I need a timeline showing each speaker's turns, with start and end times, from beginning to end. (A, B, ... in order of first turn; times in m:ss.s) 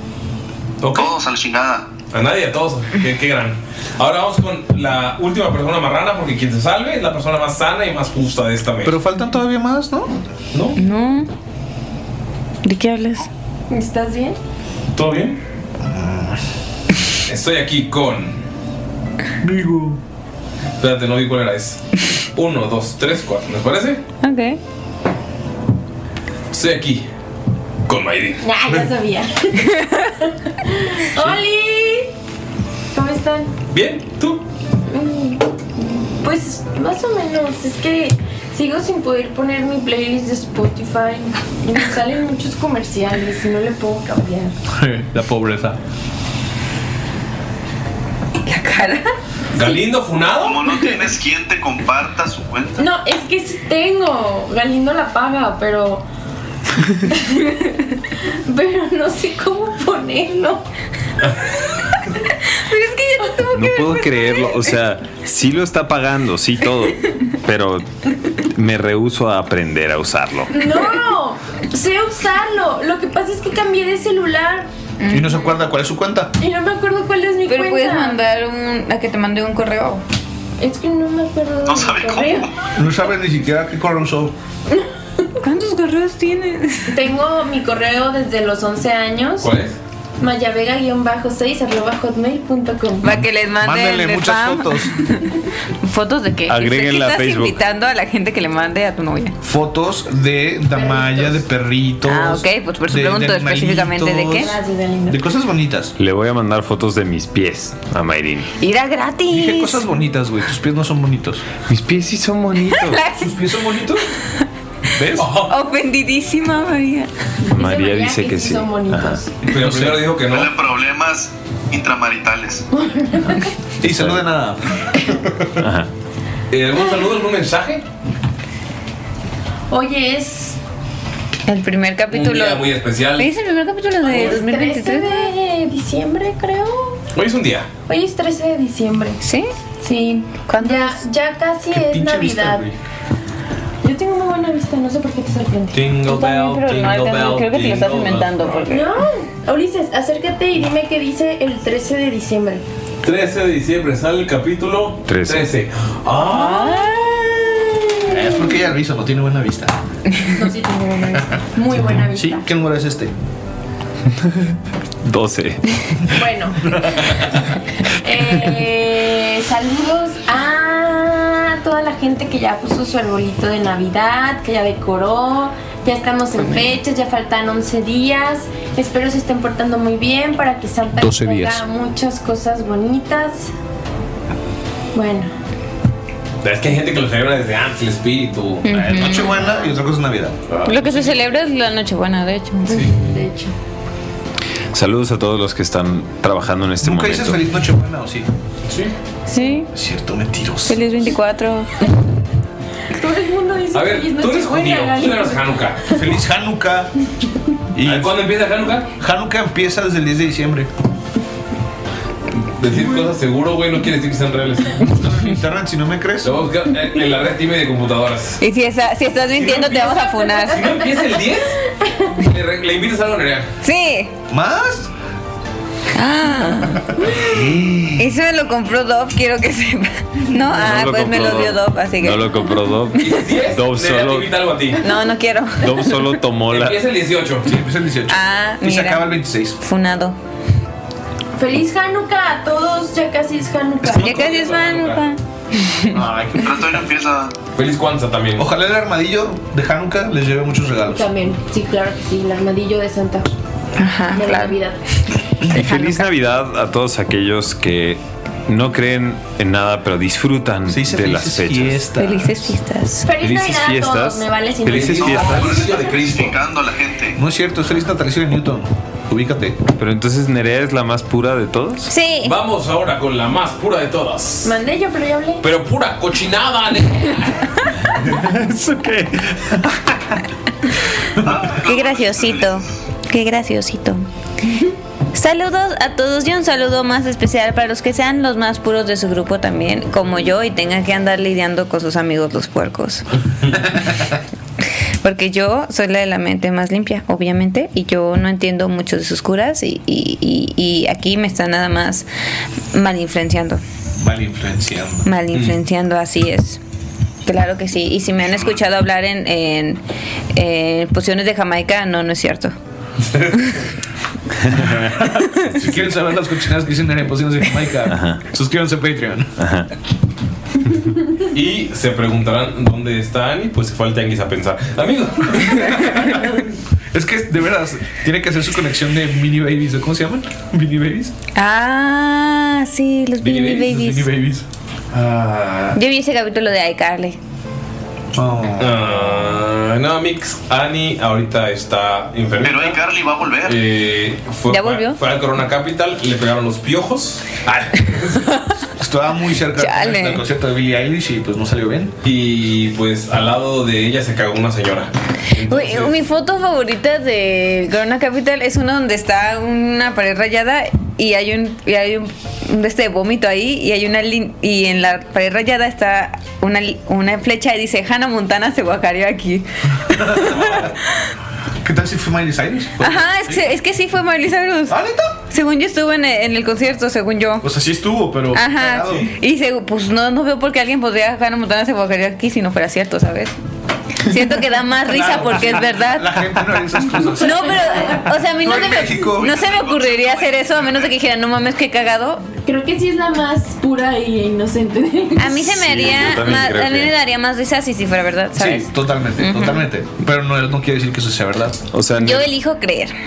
0:00.8-0:01.1 A
0:00.8-0:01.9 B
0:02.1-0:09.0 A
0:08.8-0:10.1 C
0:10.8-0:11.3 D
0:12.6-0:13.3 D
0:13.7-0:14.4 E
0:14.9-0:15.4 A
0:15.8-0:16.4 C
0:17.3-0:18.4 A
0:19.4-0:20.0 C
0:20.8-0:24.0 A
0:24.2-0:24.6 D
0:26.5-0:27.1 A
0:27.9-0:28.9 A
0:28.4-0:32.1 E
0:31.2-0:31.4 A
0:32.9-0:33.5 E
0:33.7-0:34.4 A
0:34.9-0:44.5 E
0:44.8-0:45.8 C
0:48.4-0:49.0 D
0:49.5-0:50.6 A
0:50.4-0:52.8 B
0:52.8-0:56.0 E
0:57.1-0:57.8 E
0:58.4-1:00.7 E
1:02.5-1:04.6 D
1:03.5-1:10.5 F
1:10.5-1:14.7 E
1:15.0-1:15.6 D
1:15.1-1:16.3 C
1:16.4-1:18.2 E
1:17.5-1:20.0 D
1:20.6-1:22.5 E
1:21.6-1:22.5 B
1:22.7-1:24.3 C
1:25.4-1:27.0 D
1:26.9-1:29.5 E
1:29.4-1:29.8 A
1:30.2-1:33.2 E
1:33.0-1:35.2 D
1:33.6-1:34.9 C
1:35.8-1:39.3 D
1:36.5-1:37.6 F
1:39.4-1:44.6 C
1:40.7-1:41.4 E
1:42.0-1:44.5 D
1:44.3-1:45.2 E
1:45.1-1:45.9 C
1:46.0-1:48.5 F
1:48.6-1:49.8 D
1:49.3-1:51.5 C
1:51.6-1:53.0 F
1:52.7-1:53.3 D
1:53.2-1:54.0 C
1:54.9-1:55.3 C
1:55.2-1:55.5 A
1:55.4-1:57.1 D
1:57.5-1:59.3 E
1:57.5-1:59.2 F
1:59.4-2:00.5 A
1:59.5-2:00.1 C
2:00.3-2:02.6 B
2:02.7-2:03.5 E
2:03.8-2:05.1 C
2:03.8-2:04.2 F
2:05.6-2:05.9 F
2:06.5-2:07.8 A
2:09.7-2:10.6 E
2:11.5-2:12.6 D
2:12.1-2:13.3 A
2:13.2-2:15.3 D
2:14.0-2:17.0 E
2:17.1-2:17.7 A
2:17.9-2:19.2 E
2:19.2-2:19.5 D
2:19.8-2:22.7 E
2:20.3-2:21.0 D
2:21.7-2:22.8 C
2:23.8-2:25.8 E
2:25.7-2:28.7 A
2:26.0-2:29.0 D
2:28.7-2:32.6 E
2:33.0-2:37.1 A
2:35.1-2:35.5 F
2:36.2-2:37.4 D
2:38.1-2:39.7 C
2:40.3-2:42.4 E
2:42.1-2:43.1 C
2:45.0-2:46.1 F
2:46.1-2:47.4 E
2:48.0-3:03.5 E
3:01.0-3:01.6 C
3:04.9-3:05.3 E
3:06.4-3:08.6 A
3:08.6-3:09.4 D
3:08.7-3:10.4 C
3:10.5-3:11.2 A
3:10.6-3:12.9 D
3:12.7-3:13.5 E
3:14.7-3:17.4 F
3:16.8-3:18.3 C
3:18.7-3:18.9 A
3:19.3-3:19.7 D
3:19.7-3:20.8 C
3:20.6-3:21.7 D
3:22.9-3:25.9 E
3:23.7-3:26.1 A
3:25.9-3:26.9 C
3:27.7-3:28.2 C
3:27.8-3:28.9 A
3:29.0-3:30.7 C
3:32.3-3:35.0 A
3:34.9-3:36.3 C
3:36.2-3:38.4 A
3:38.4-3:40.7 D
3:39.4-3:41.6 A
3:39.8-3:40.8 E
3:41.7-3:42.1 E
3:42.2-3:43.5 A
3:43.6-3:44.1 D
3:44.3-3:44.9 C
3:45.9-3:47.0 D
3:47.0-3:48.1 C
3:48.0-3:52.3 D
3:50.5-3:54.3 F
3:53.0-3:54.8 A
3:54.8-3:56.2 D
3:55.6-3:56.8 F
3:56.5-3:57.5 A
3:57.4-3:59.6 C
3:58.1-4:00.2 D
4:01.4-4:04.2 E
4:03.9-4:05.0 A
4:03.9-4:06.0 D
4:05.9-4:06.8 C
4:06.4-4:07.3 B
4:07.5-4:08.5 A
4:08.4-4:11.1 C
4:10.8-4:13.3 E
4:13.8-4:14.6 D
4:14.1-4:14.8 E
4:15.5-4:16.1 D
4:15.5-4:21.8 F
4:20.7-4:22.5 C
4:22.0-4:23.1 D
4:23.0-4:26.0 E
4:23.2-4:25.4 F
4:24.6-4:26.3 A
4:24.8-4:26.1 C
4:25.0-4:27.2 B
4:27.2-4:29.6 C
4:29.8-4:31.9 F
4:31.9-4:32.3 D
4:32.2-4:34.5 A
4:34.4-4:35.4 E
4:35.4-4:37.5 A
4:38.1-4:39.4 F
4:41.2-4:41.6 C
4:41.4-4:42.6 B
4:41.6-4:44.0 D
4:45.1-4:53.1 D
4:55.0-5:02.1 D
5:02.7-5:03.6 D
5:04.0-5:05.0 C
5:05.0-5:06.6 D
5:07.2-5:09.8 D
5:10.3-5:12.5 D
5:13.0-5:13.6 A
5:14.5-5:14.9 F
5:15.4-5:19.3 C
5:17.9-5:18.2 F
5:19.4-5:19.7 F
5:21.3-5:26.4 A
5:25.8-5:26.1 C
5:26.9-5:31.1 C
5:31.3-5:34.1 D
5:33.2-5:33.8 A
5:33.6-5:34.4 C
5:34.9-5:35.7 A
5:35.7-5:37.2 D
5:38.1-5:39.3 C
5:38.6-5:42.8 A
5:42.4-5:43.6 B
5:43.4-5:48.2 A
5:44.5-5:45.0 D
5:48.1-5:48.5 D
5:48.8-5:51.9 C
5:49.6-5:50.2 D
5:52.0-5:56.0 A
5:55.5-6:10.7 D
6:09.9-6:10.7 C
6:11.6-6:13.4 C
6:12.8-6:14.8 D
6:14.7-6:15.2 C
6:15.3-6:17.5 D
6:17.4-6:19.1 C
6:18.3-6:23.3 D
6:24.0-6:26.3 D
6:24.9-6:29.3 C
6:27.0-6:28.0 E
6:27.2-6:32.2 D
6:28.6-6:30.9 B
6:32.4-6:35.5 E
6:35.2-6:39.7 D
6:35.4-6:36.9 F
6:38.4-6:41.6 C
6:41.7-6:42.3 F
6:42.0-6:42.9 D